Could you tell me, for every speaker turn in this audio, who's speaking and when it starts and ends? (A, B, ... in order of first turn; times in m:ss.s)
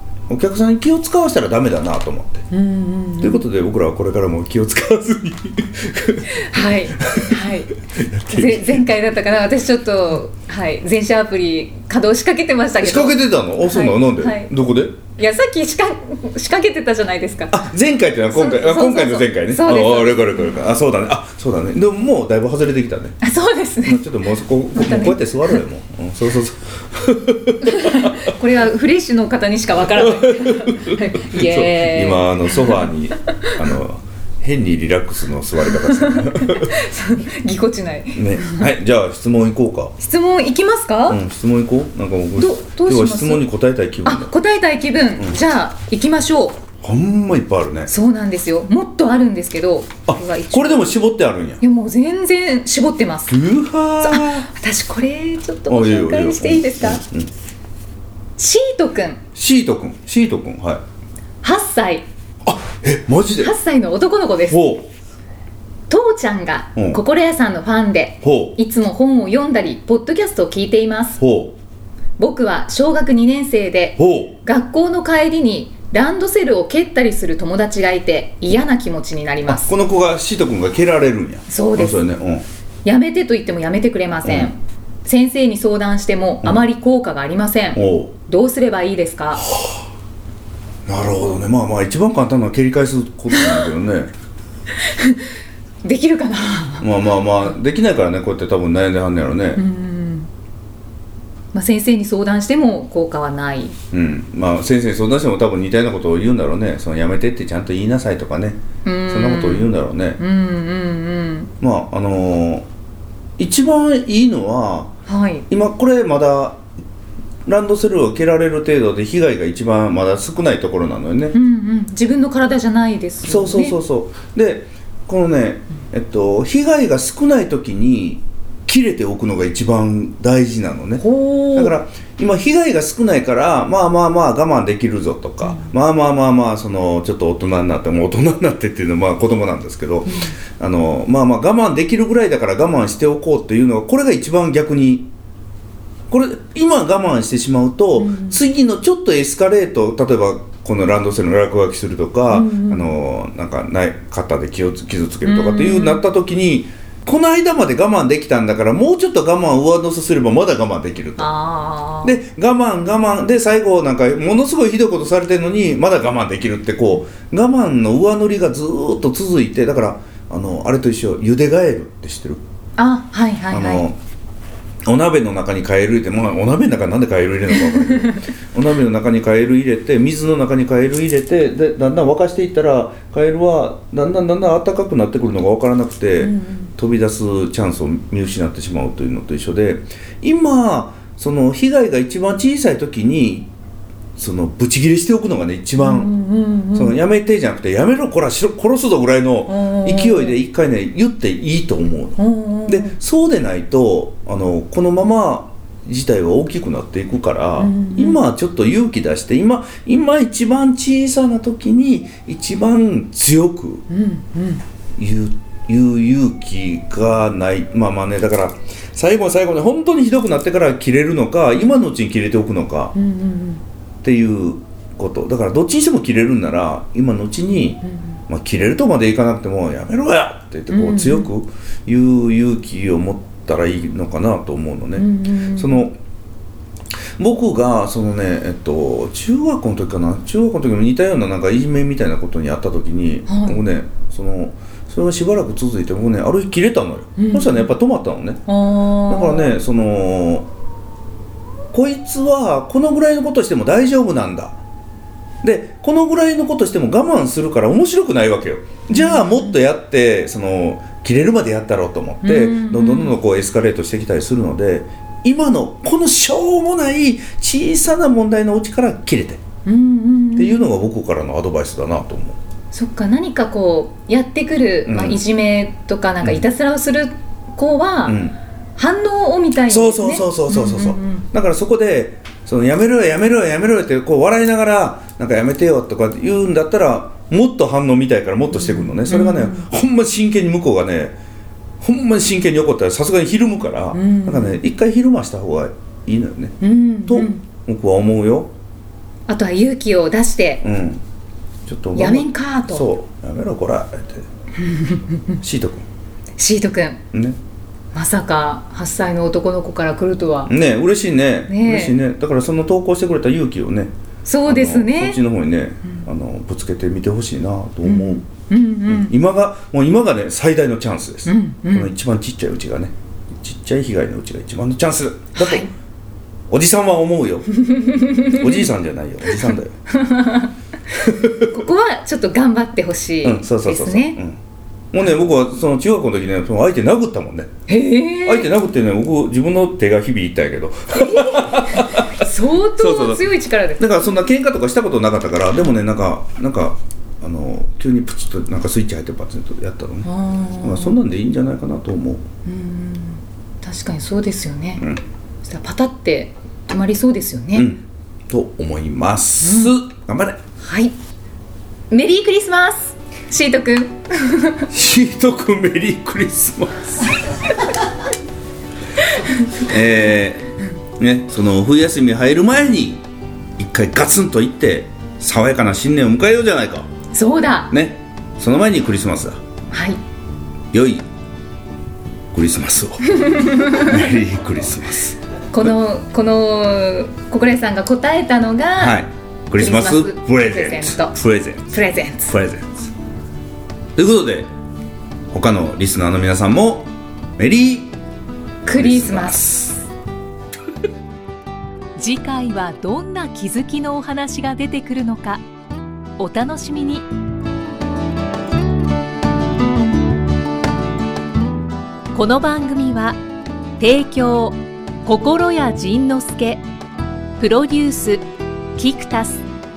0:00.3-0:02.5 A
0:02.5-0:03.4 B
0:03.2-0:08.9 A
0:06.3-0:07.7 B
0:08.3-0:14.5 B
0:12.8-0:15.0 A
0:15.2-0:17.6 B
0:17.5-0:23.2 A
0:18.3-0:20.6 B
0:23.2-0:24.1 B
0:23.8-0:28.3 A
0:24.7-0:25.6 B
0:27.6-0:33.6 B
0:29.9-0:36.8 A
0:35.7-0:38.7 B
0:38.1-0:39.9 A
0:40.0-0:41.2 B
0:41.1-0:44.3 A
0:42.4-0:43.5 B
0:44.0-0:46.6 B
0:46.8-0:47.9 A
0:47.9-0:50.9 B
0:50.1-0:51.6 A
0:51.6-0:53.4 B
0:53.3-0:54.5 A
0:54.0-0:57.0 B
0:55.7-0:57.3 A
0:58.4-0:59.2 B
0:59.4-1:00.8 A
1:01.4-1:02.0 B
1:02.4-1:03.5 A
1:03.4-1:04.6 B
1:04.5-1:04.9 A
1:05.9-1:11.2 B
1:06.8-1:07.0 A
1:08.2-1:08.6 A
1:11.2-1:11.5 A
1:12.2-1:19.7 B
1:14.0-1:14.4 A
1:19.5-1:22.4 A
1:21.5-1:22.0 B
1:22.8-1:29.4 B
1:24.2-1:24.5 A
1:27.8-1:28.1 A
1:29.5-1:29.8 A
1:30.8-1:34.1 A
1:34.8-1:35.3 B
1:35.8-1:36.9 B
1:36.8-1:39.6 A
1:39.6-1:40.3 B
1:41.5-1:43.8 B
1:43.9-1:50.2 A
1:48.8-1:51.5 B
1:51.6-1:52.7 A
1:53.4-1:54.9 A
1:55.1-1:55.4 B
1:55.5-1:56.6 A
1:57.5-2:01.4 A
2:01.3-2:03.8 B
2:03.2-2:25.1 A
2:11.0-2:11.8 B
2:15.4-2:15.7 B
2:20.1-2:20.3 B
2:26.1-2:41.3 A
2:28.0-2:28.4 B
2:32.3-2:32.9 B
2:35.2-2:36.0 B
2:41.2-2:42.2 B
2:42.0-2:52.4 A
2:52.8-2:53.8 B
2:53.5-2:54.0 A
2:54.8-3:13.5 A
3:06.2-3:06.7 B
3:14.2-3:16.1 A
3:15.8-3:17.0 B
3:16.7-3:33.8 A
3:19.5-3:20.4 B
3:22.2-3:23.0 B
3:27.6-3:28.2 B
3:33.9-3:34.6 B
3:35.0-3:42.9 A
3:43.0-3:43.6 B
3:44.0-3:56.0 A
3:50.7-3:51.3 B
3:55.0-3:55.9 B
3:57.2-4:08.4 A
4:03.3-4:03.6 B
4:07.2-4:07.7 B
4:08.5-4:09.6 B
4:09.1-4:10.5 A
4:11.7-4:14.6 A
4:15.4-4:29.4 A
4:18.9-4:19.6 B
4:22.2-4:23.2 B
4:29.7-4:30.7 B
4:30.4-4:32.4 A
4:32.7-4:38.2 B
4:34.8-4:35.2 A
4:38.0-4:38.4 A
4:38.8-4:41.2 B
4:39.7-4:51.2 A
4:48.6-4:49.7 B
4:51.8-4:58.5 A
4:53.9-4:54.6 B
4:56.6-4:57.4 B
4:59.3-5:00.6 B
5:00.6-5:01.0 A
5:01.7-5:04.2 A
5:02.0-5:02.9 B
5:04.6-5:05.3 B
5:05.4-5:05.8 A
5:06.4-5:07.0 B
5:07.1-5:07.4 A
5:07.9-5:10.5 B
5:10.4-5:13.9 A
5:11.5-5:12.0 B
5:14.2-5:15.2 B
5:14.5-5:18.2 A
5:17.8-5:19.1 B
5:18.8-5:25.7 A
5:21.2-5:21.9 B
5:25.3-5:25.7 B
5:26.5-5:27.5 A
5:27.6-5:28.6 B
5:28.2-5:29.8 A
5:29.9-5:30.5 B
5:31.0-5:31.5 A
5:31.5-5:34.2 B
5:33.2-5:34.4 A
5:34.9-5:37.5 A
5:37.7-5:38.5 B
5:38.2-5:43.3 A
5:41.0-5:44.1 B
5:43.8-5:50.1 A
5:50.0-5:51.0 B
5:50.6-5:52.2 A
5:52.4-5:54.8 B
5:55.4-5:57.7 B
5:57.5-6:00.4 A
5:59.4-5:59.8 B
6:00.6-6:01.0 B
6:01.9-6:04.7 B
6:04.7-6:07.1 A
6:09.2-6:09.5 B
6:09.5-6:13.0 A
6:13.6-6:16.9 A
6:17.1-6:17.7 B
6:17.7-6:19.4 A
6:19.7-6:20.0 B
6:20.7-6:21.0 A
6:22.3-6:25.7 A
6:23.1-6:24.0 B
6:25.5-6:29.0 B
6:28.8-6:31.8 A
6:29.6-6:31.2 B
6:31.7-6:32.4 B
6:32.3-6:32.9 A
6:34.0-6:34.5 A
6:35.3-6:38.0 A
6:38.6-6:39.6 B
6:38.7-6:39.8 A
6:42.0-6:45.4 C
6:46.2-6:47.0 C
6:52.1-6:53.2 C
6:53.8-6:56.6 C
6:57.4-6:58.2 C
6:58.8-6:59.4 C